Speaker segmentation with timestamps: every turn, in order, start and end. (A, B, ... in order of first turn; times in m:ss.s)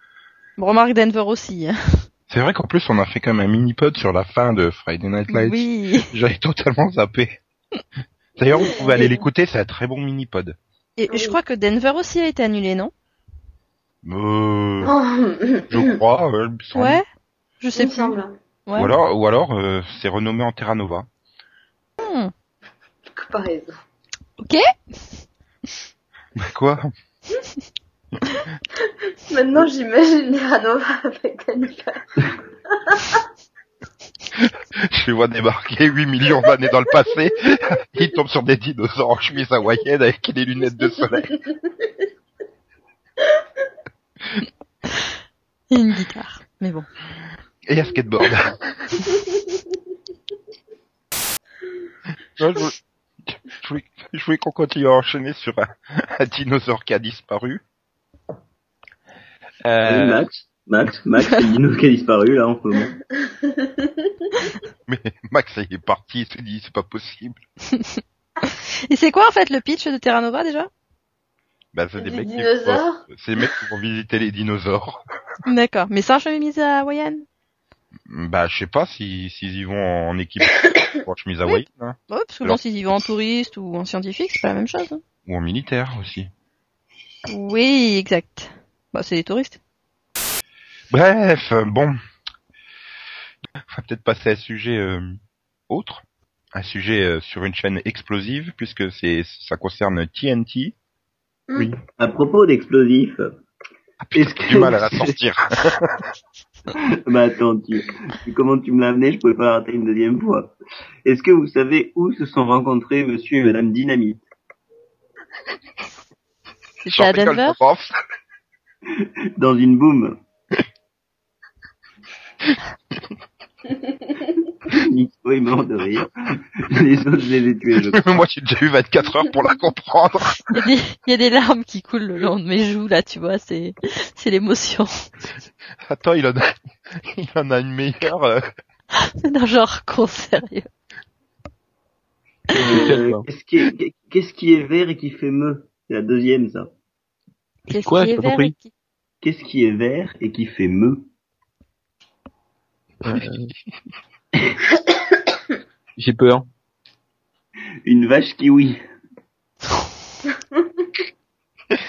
0:00.6-0:02.0 A
0:02.3-0:07.4 B
0:05.3-0:06.1 A
0:08.4-0:10.6 B
0:08.6-0:09.2 C
0:11.0-0:12.9 A
0:11.1-0:11.4 C
0:14.0-0:14.9 B
0:14.8-0:16.0 C
0:15.7-0:17.0 B
0:16.8-0:17.0 A
0:17.6-0:18.2 A
0:17.7-0:18.4 C
0:18.7-0:19.0 A
0:18.8-0:21.1 B
0:22.0-0:22.3 A
0:23.1-0:23.8 C
0:24.4-0:24.6 A
0:26.4-0:26.9 B
0:29.3-0:32.1 C
0:32.7-0:33.2 C
0:34.4-0:41.3 B
0:45.7-0:46.9 A
0:47.7-0:48.9 B
0:52.4-0:57.6 B
0:59.7-1:00.2 D
0:59.8-1:03.0 E
1:03.2-1:04.1 C
1:04.9-1:07.4 B
1:07.7-1:10.7 A
1:11.7-1:15.0 B
1:12.0-1:13.0 C
1:15.4-1:17.2 A
1:18.1-1:22.6 B
1:21.5-1:25.0 A
1:25.3-1:26.3 B
1:27.3-1:29.6 A
1:30.9-1:32.0 B
1:33.7-1:35.2 B
1:35.7-1:40.8 B
1:42.0-1:43.3 E
1:44.0-1:45.9 B
1:44.2-1:45.2 E
1:47.0-1:50.5 E
1:51.0-1:54.2 E
1:56.8-1:57.6 A
1:56.9-1:57.9 B
1:59.0-2:00.2 E
2:04.7-2:08.2 E
2:07.8-2:10.6 B
2:10.5-2:15.0 A
2:15.8-2:18.4 B
2:18.9-2:20.7 A
2:22.5-2:23.3 D
2:22.6-2:26.7 E
2:27.7-2:28.7 A
2:27.7-2:28.5 D
2:29.2-2:31.1 E
2:33.0-2:33.5 D
2:36.0-2:36.5 D
2:37.8-2:38.8 E